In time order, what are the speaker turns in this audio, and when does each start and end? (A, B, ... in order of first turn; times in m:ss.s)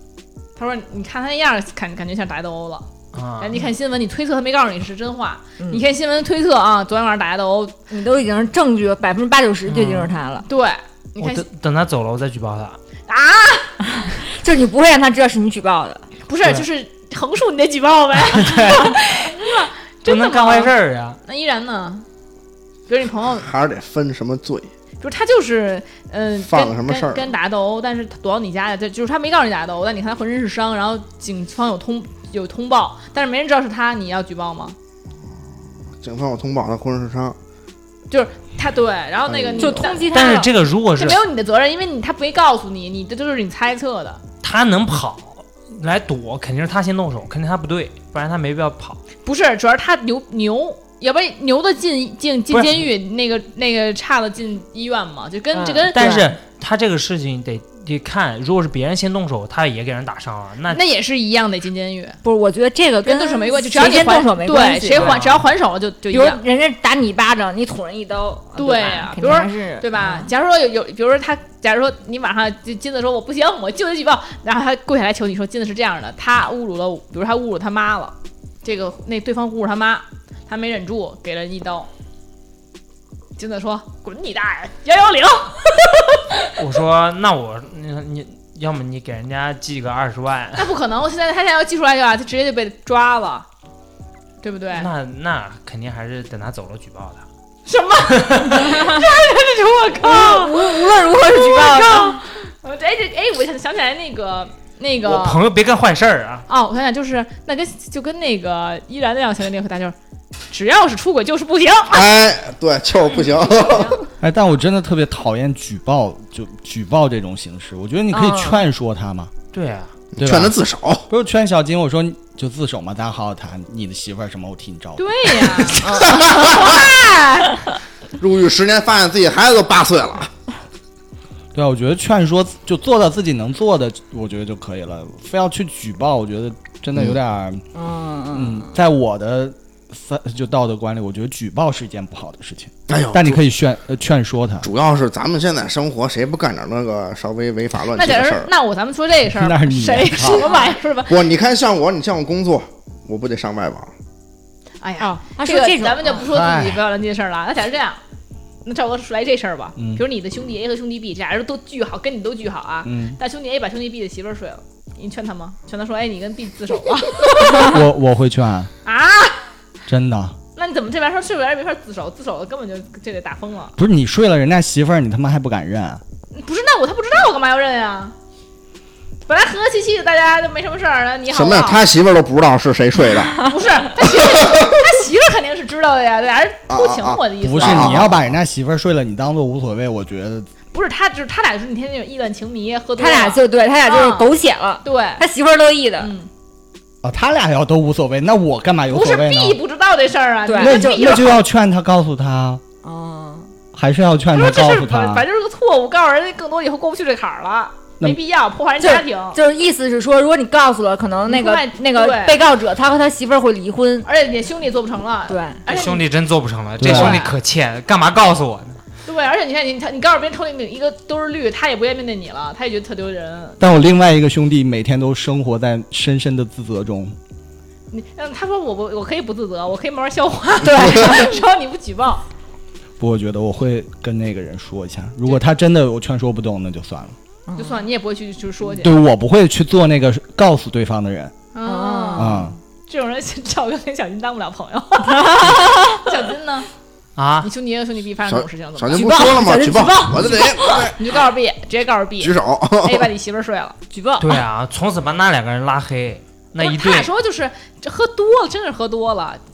0:00.6-0:02.9 A
0:03.1-0:03.6 B
0:03.4-0:07.8 A
0:07.9-0:10.5 C
0:09.7-0:10.1 B
0:10.5-0:11.5 A
0:11.2-0:12.8 B
0:13.1-0:13.8 A
0:14.0-0:16.0 C
0:16.3-0:22.1 A
0:18.3-0:19.0 B
0:20.0-0:21.2 B
0:22.9-0:23.5 A
0:23.4-0:24.7 D
0:25.0-0:34.8 A
0:26.4-0:27.3 D
0:36.0-0:37.4 D
0:38.1-0:44.2 A
0:39.3-0:39.9 D
0:39.6-0:40.5 C
0:40.1-0:41.2 B
0:44.4-0:49.0 B
0:49.2-0:56.3 A
0:52.5-0:52.9 B
0:55.5-0:56.3 C
0:55.9-1:00.8 B
1:00.7-1:02.2 A
1:02.2-1:05.2 C
1:03.0-1:06.4 A
1:04.9-1:05.4 B
1:06.1-1:10.3 C
1:08.6-1:21.9 A
1:23.4-1:26.2 A
1:26.6-1:30.7 B
1:30.6-1:33.5 A
1:34.4-1:34.9 A
1:34.7-1:37.2 B
1:37.7-1:45.4 A
1:38.2-1:38.7 B
1:38.7-1:39.0 C
1:40.0-1:42.2 C
1:45.0-1:46.5 B
1:46.5-1:50.0 A
1:50.5-1:52.1 A
1:51.9-1:54.0 D
1:53.5-1:54.0 A
1:54.2-1:59.3 E
1:58.1-1:58.6 C
1:59.5-2:00.0 B
2:00.2-2:01.1 D
2:00.2-2:00.6 E
2:01.1-2:05.8 E
2:05.0-2:07.6 A
2:05.8-2:06.5 C
2:06.0-2:06.9 D
2:08.2-2:10.3 D
2:11.5-2:17.6 E
2:17.7-2:18.7 C
2:18.3-2:24.7 E
2:22.9-2:23.4 D
2:24.6-2:28.5 D
2:27.9-2:31.2 A
2:29.3-2:30.4 E
2:30.3-2:30.7 C
2:31.1-2:33.9 D
2:34.8-2:38.0 A
2:35.0-2:36.2 C
2:36.3-2:36.8 E
2:38.6-2:47.7 A
2:39.8-2:40.0 E
2:42.8-2:43.2 E
2:47.5-2:48.7 E
2:48.8-2:49.4 A
2:49.9-2:50.4 E
2:50.6-2:53.8 A
2:53.8-2:56.0 E
2:56.3-2:58.2 A
2:59.3-3:01.8 A
3:01.3-3:03.5 D
3:03.4-3:08.1 A
3:04.1-3:04.8 D
3:06.7-3:08.2 D
3:07.4-3:10.5 E
3:10.7-3:14.3 A
3:13.0-3:16.1 C
3:14.8-3:15.2 A
3:16.0-3:16.3 A
3:17.0-3:19.6 E
3:18.9-3:21.4 A
3:20.5-3:21.3 C
3:20.6-3:22.6 E
3:22.8-3:23.6 C
3:23.7-3:25.3 E
3:24.3-3:29.4 A
3:28.8-3:34.1 C
3:31.2-3:32.4 A
3:34.0-3:36.1 A
3:35.3-3:35.6 C
3:35.7-3:38.8 B
3:36.8-3:37.2 E
3:36.8-3:37.4 A
3:39.1-3:43.6 A
3:43.6-3:47.2 E
3:47.9-3:52.2 A
3:50.6-3:51.4 C
3:53.0-3:57.2 E
3:57.5-3:57.8 C
3:57.6-3:58.9 A
3:58.8-4:01.3 E
4:01.5-4:06.7 A
4:01.6-4:02.6 C
4:02.2-4:02.6 E
4:05.1-4:06.0 C
4:07.2-4:07.5 B
4:07.4-4:09.4 A
4:08.3-4:11.0 D
4:08.9-4:10.9 C
4:10.9-4:13.8 A
4:12.2-4:13.1 D
4:13.9-4:14.4 C
4:14.2-4:17.1 B
4:16.6-4:19.4 A